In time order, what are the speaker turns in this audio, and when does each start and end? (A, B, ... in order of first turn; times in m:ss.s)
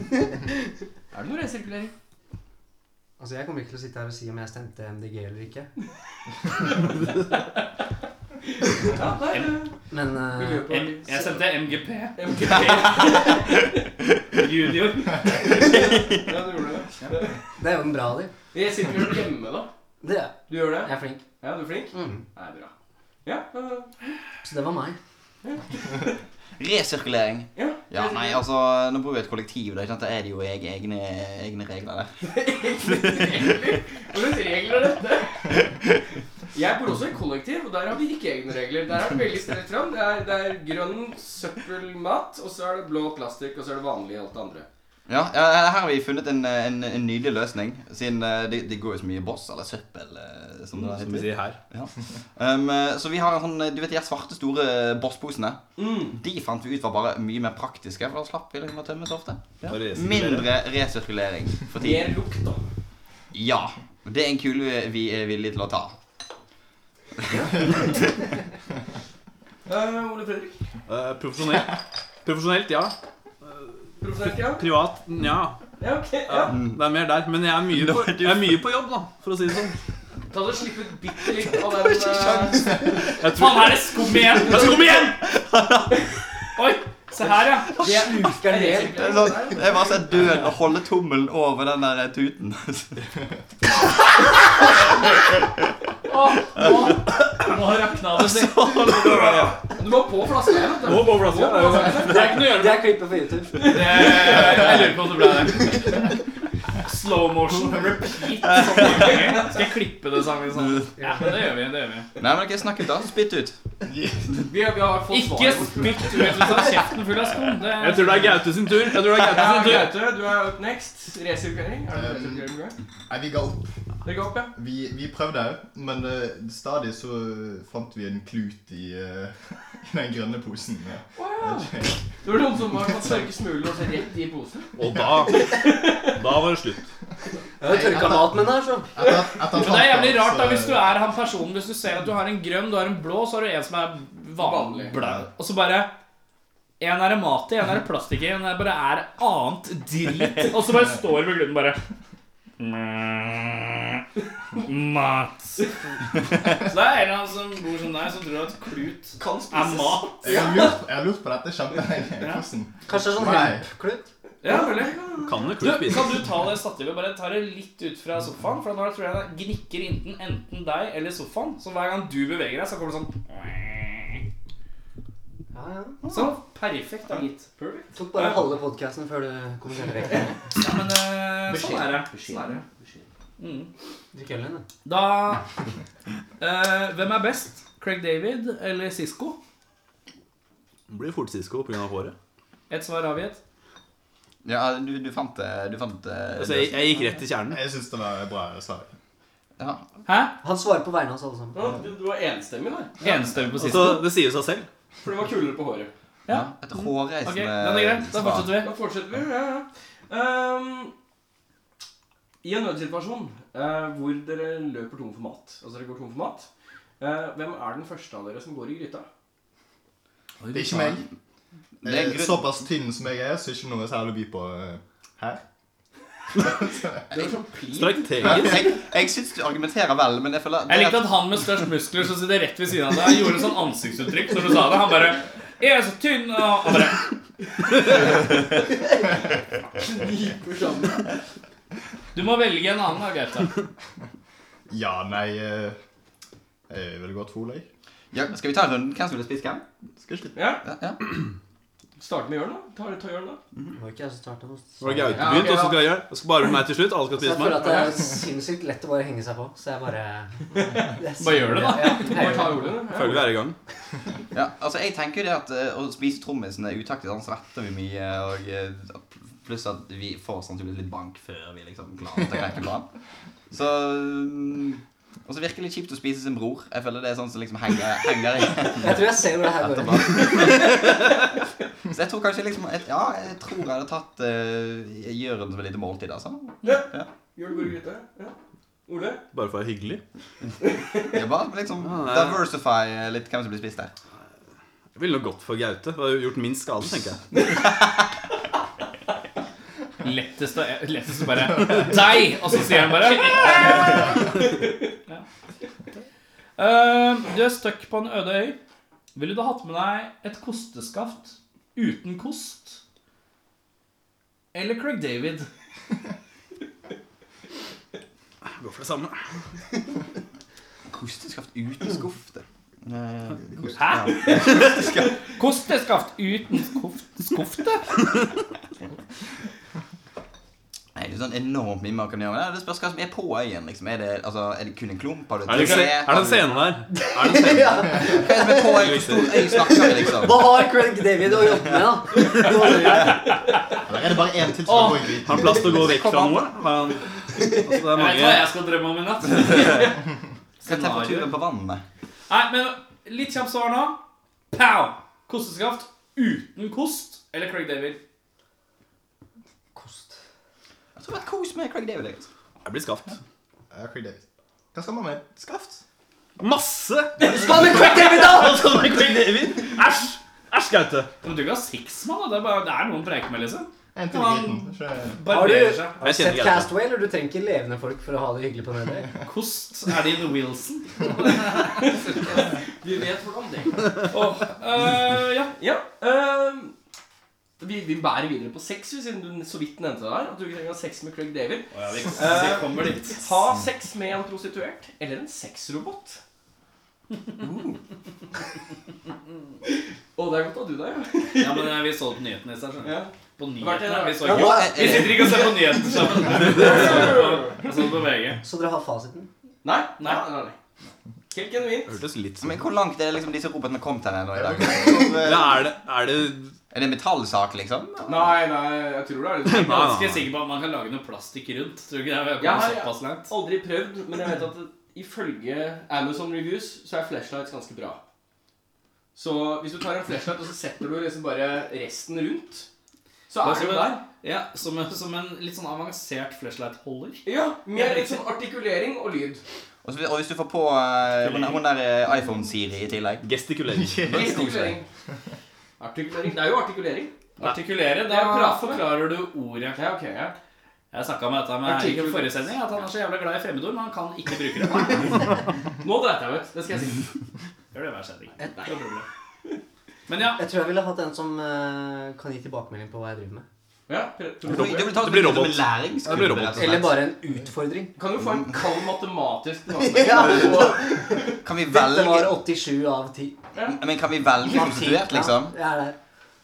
0:01.1-0:01.9 A
0:03.2-0:05.7 B
0:08.8-0:09.8 A
0:09.9-0:10.8 B
0:10.3-0:11.3 A
0:10.7-0:13.4 C
0:12.2-0:13.6 A
0:14.3-0:15.3 C
0:15.4-0:17.3 A
0:17.6-0:18.3 B
0:18.5-0:19.7 A
0:20.0-0:21.2 B
0:20.5-0:22.7 A
0:21.9-0:22.2 B
0:23.2-0:23.9 A
0:24.4-0:25.0 B
0:25.4-0:26.2 A
0:26.6-0:32.2 D
0:27.6-0:28.4 A
0:32.2-0:35.6 A
0:33.1-0:33.4 D
0:36.5-0:44.6 A
0:45.1-1:02.1 D
0:50.8-0:51.6 E
0:55.8-0:56.2 A
0:59.7-1:00.5 E
1:01.7-1:02.6 A
1:03.3-1:06.0 D
1:07.2-1:07.5 D
1:09.6-1:10.6 A
1:10.9-1:12.9 E
1:14.0-1:14.6 A
1:14.4-1:15.6 E
1:15.8-1:16.6 A
1:16.3-1:19.8 E
1:16.5-1:16.8 D
1:17.7-1:18.6 D
1:20.3-1:22.9 A
1:21.6-1:23.1 D
1:23.2-1:23.9 E
1:23.3-1:25.2 C
1:25.2-1:25.9 D
1:26.6-1:27.7 C
1:27.8-1:29.5 B
1:27.8-1:28.2 D
1:27.8-1:29.8 A
1:28.8-1:32.9 D
1:36.1-1:39.4 C
1:38.5-1:39.3 D
1:39.8-1:42.3 A
1:40.8-1:42.4 E
1:41.8-1:42.9 C
1:42.0-1:44.2 B
1:43.6-1:46.0 C
1:43.7-1:44.6 A
1:46.8-1:52.1 C
1:48.5-1:49.2 D
1:48.8-1:49.5 A
1:51.0-1:51.3 B
1:52.2-1:53.6 D
1:53.9-1:54.5 F
1:54.5-1:56.8 A
1:55.1-1:58.4 C
1:57.7-1:59.9 E
1:59.2-2:02.8 A
2:01.9-2:02.5 F
2:03.1-2:03.7 F
2:04.0-2:04.5 A
2:04.5-2:12.0 F
2:11.2-2:14.7 A
2:14.8-2:16.9 E
2:15.3-2:16.1 A
2:17.6-2:19.1 B
2:17.6-2:20.9 F
2:19.5-2:25.9 C
2:24.4-2:24.9 A
2:26.8-2:31.8 C
2:32.6-2:34.0 C
2:34.6-2:35.6 C
2:36.6-2:40.4 C
2:39.2-2:40.8 A
2:40.2-2:43.7 F
2:42.2-2:42.4 C
2:42.9-2:44.1 B
2:44.4-2:45.0 C
2:44.4-2:45.4 A
2:45.2-2:46.2 E
2:45.6-2:54.2 C
2:55.5-2:56.0 B
2:56.1-2:58.4 C
2:57.6-2:57.8 A
2:57.9-3:00.4 B
3:00.5-3:02.6 C
3:01.5-3:03.0 A
3:03.4-3:03.7 C
3:04.1-3:04.6 B
3:04.8-3:05.5 C
3:06.4-3:09.4 C
3:10.9-3:12.1 E
3:12.7-3:13.4 C
3:14.4-3:17.0 D
3:16.3-3:17.6 E
3:17.5-3:18.9 F
3:19.6-3:19.8 D
3:20.0-3:20.3 C
3:20.4-3:21.7 B
3:21.5-3:23.0 A
3:23.0-3:24.1 C
3:23.5-3:24.7 E
3:25.0-3:25.9 A
3:26.3-3:28.6 D
3:27.2-3:28.7 C
3:28.6-3:30.9 A
3:32.4-3:36.5 A
3:37.0-3:39.1 A
3:40.4-3:41.0 C
3:40.5-3:41.0 F
3:41.8-3:42.5 D
3:41.8-3:45.4 F
3:46.5-3:47.0 F
3:47.1-3:48.5 A
3:47.7-3:48.8 E
3:48.2-3:51.2 D
3:50.7-3:57.1 C
3:59.7-4:01.1 A
4:02.1-4:03.6 C
4:04.7-4:05.8 F
4:06.7-4:07.7 F
4:08.1-4:09.6 D
4:10.0-4:10.4 F
4:10.3-4:10.6 A
4:10.6-4:11.0 D
4:12.0-4:13.4 A
4:13.8-4:15.5 B
4:14.8-4:17.7 E
4:15.2-4:15.9 A
4:17.1-4:22.8 B
4:17.6-4:18.0 A
4:20.6-4:20.9 A
4:21.2-4:22.7 C
4:21.8-4:23.3 A
4:22.9-4:23.6 E
4:24.3-4:32.9 D
4:33.5-4:41.1 D
4:38.7-4:40.4 B
4:41.9-4:47.1 D
4:46.6-4:48.3 A
4:48.9-4:49.2 A
4:49.3-4:50.0 E
4:50.6-4:51.2 A
4:51.1-4:53.9 D
4:51.8-4:52.5 E
4:54.9-4:57.2 E
5:00.0-5:04.3 C
5:06.6-5:08.6 C
5:09.1-5:12.8 C
5:14.5-5:15.5 C
5:18.6-5:19.2 E
5:20.9-5:25.2 D
5:23.8-5:28.0 C
5:30.9-5:36.5 D
5:35.4-5:38.0 E
5:36.9-5:38.8 B
5:38.1-5:40.6 D
5:38.6-5:39.6 E
5:39.5-5:43.4 B
5:41.5-5:42.4 D
5:42.9-5:43.2 D
5:43.8-5:46.0 F
5:44.7-5:45.0 C
5:45.2-5:48.5 E
5:45.6-5:46.5 D
5:47.4-5:47.8 B
5:47.9-5:50.0 C
5:49.5-5:49.9 D
5:50.6-5:51.4 C
5:50.6-5:51.8 D
5:52.3-5:54.0 C
5:54.5-5:58.0 C
5:59.7-6:00.2 B
6:01.0-6:02.3 D
6:02.6-6:03.2 E
6:03.7-6:04.2 F
6:04.7-6:05.8 F
6:06.4-6:11.1 E
6:07.2-6:09.0 B
6:11.2-6:16.0 C
6:13.9-6:15.2 F
6:15.2-6:19.2 B
6:16.0-6:16.7 E
6:19.2-6:22.2 C
6:21.8-6:23.9 A
6:24.1-6:25.5 C
6:25.6-6:26.7 A
6:27.6-6:36.2 A
6:31.7-6:33.3 C
6:37.4-6:37.8 A
6:39.7-6:41.8 A
6:41.4-6:48.4 C
6:42.8-6:47.7 A
6:44.2-6:45.1 B
6:44.3-6:45.3 D
6:48.4-6:49.3 B
6:49.6-6:50.6 A
6:50.0-6:50.2 C
6:51.3-6:51.9 A
6:51.9-6:52.7 E
6:52.4-6:55.5 D
6:54.3-6:55.3 F
6:55.2-6:56.5 E
6:56.7-6:58.4 D
6:58.0-6:59.9 A
6:59.4-7:00.3 E
6:59.6-7:03.3 C
7:02.4-7:08.0 A
7:09.1-7:12.7 A
7:13.3-7:14.0 A
7:13.4-7:18.2 C
7:17.2-7:19.4 A
7:19.8-7:23.2 D
7:21.2-7:21.6 E
7:23.2-7:24.0 E
7:23.7-7:24.6 F
7:24.1-7:24.8 D
7:24.1-7:24.8 A
7:25.8-7:27.5 A
7:27.4-7:29.8 C
7:28.0-7:29.0 A
7:29.8-7:30.4 A
7:30.9-7:35.1 C
7:31.6-7:32.5 A
7:35.8-7:37.1 A
7:37.7-7:39.0 C
7:38.4-7:38.7 B
7:40.1-7:40.4 C
7:40.3-7:43.4 B
7:43.9-7:45.0 A
7:44.4-7:46.8 E
7:44.5-7:47.0 D
7:46.4-7:48.0 B
7:48.0-7:51.4 A
7:49.8-7:53.4 B
7:51.4-7:52.4 D
7:53.7-7:55.5 D
7:54.4-7:56.0 B